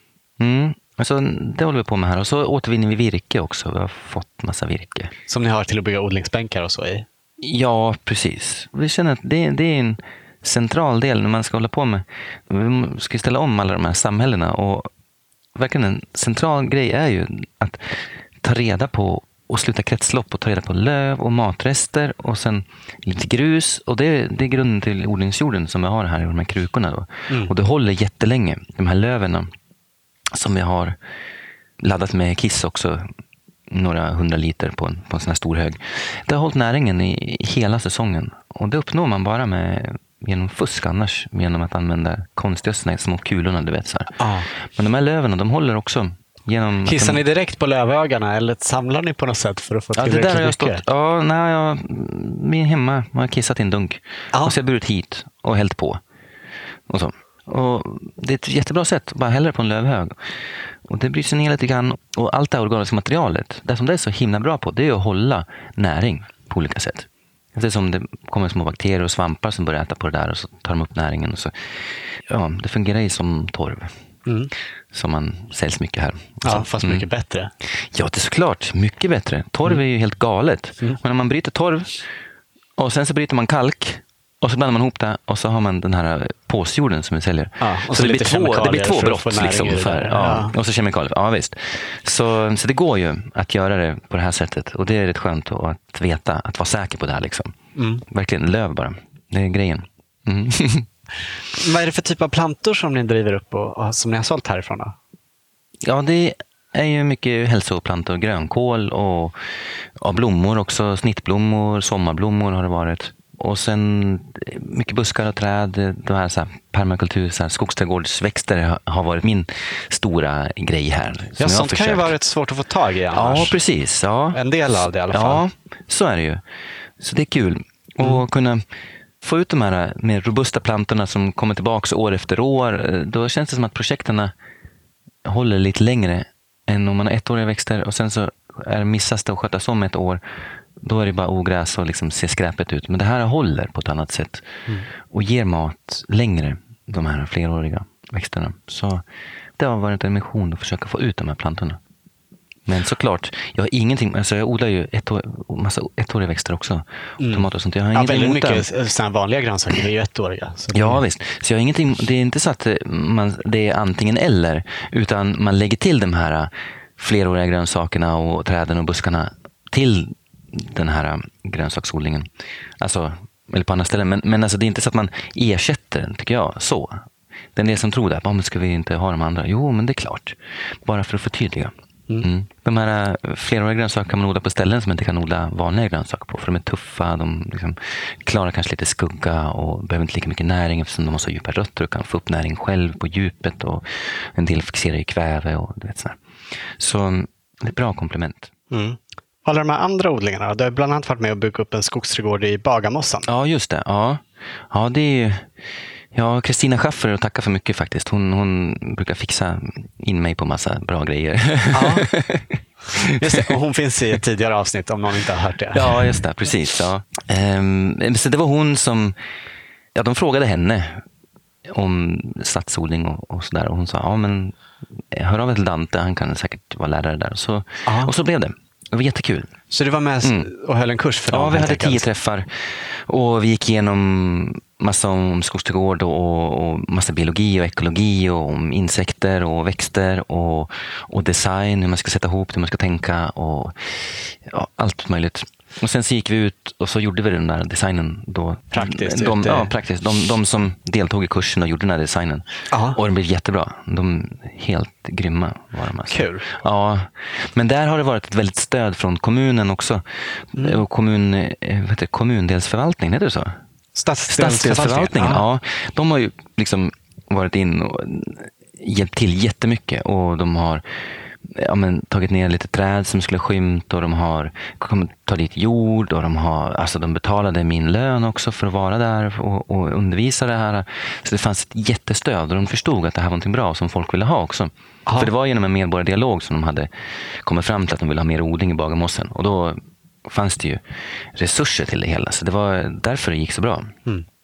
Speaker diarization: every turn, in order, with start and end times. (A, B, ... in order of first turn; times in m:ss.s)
0:00.4-0:05.1 A
0:05.3-0:07.1 B
0:07.4-0:14.9 A
0:15.5-0:29.5 A
0:30.3-0:31.0 A
0:31.8-0:33.0 A
0:33.7-0:47.2 A
0:44.2-0:44.5 B
0:46.8-0:50.8 B
0:50.0-0:56.0 A
0:56.9-1:00.3 A
1:00.8-1:13.9 A
1:14.2-1:14.5 B
1:14.9-1:17.0 A
1:16.4-1:17.5 B
1:17.7-1:22.1 A
1:22.8-1:37.5 A
1:27.6-1:30.5 B
1:37.7-1:38.0 B
1:38.1-1:40.9 A
1:41.5-1:44.9 B
1:45.8-2:02.1 A
2:01.4-2:03.6 B
2:03.1-2:04.4 A
2:04.3-2:05.4 B
2:05.1-2:06.4 A
2:07.0-2:08.6 A
2:09.2-2:14.3 A
2:15.2-2:20.2 A
2:20.8-2:29.0 A
2:29.6-2:31.8 A
2:32.6-2:38.7 A
2:37.2-2:41.0 B
2:40.7-2:52.3 A
2:52.8-3:16.2 A
3:16.8-3:18.5 A
3:18.7-3:23.3 B
3:23.2-3:25.5 A
3:26.1-3:33.5 A
3:31.7-3:32.1 B
3:32.9-3:36.2 B
3:35.7-3:39.2 A
3:39.9-3:41.0 A
3:41.6-3:49.5 A
3:47.8-3:48.1 B
3:49.7-3:52.0 B
3:51.3-4:23.5 A
4:08.7-4:09.7 B
4:12.7-4:13.0 B
4:16.1-4:16.5 B
4:20.6-4:20.8 B
4:24.0-4:25.4 B
4:24.3-4:30.8 A
4:31.4-4:50.8 A
4:45.0-4:45.3 B
4:51.3-4:53.9 A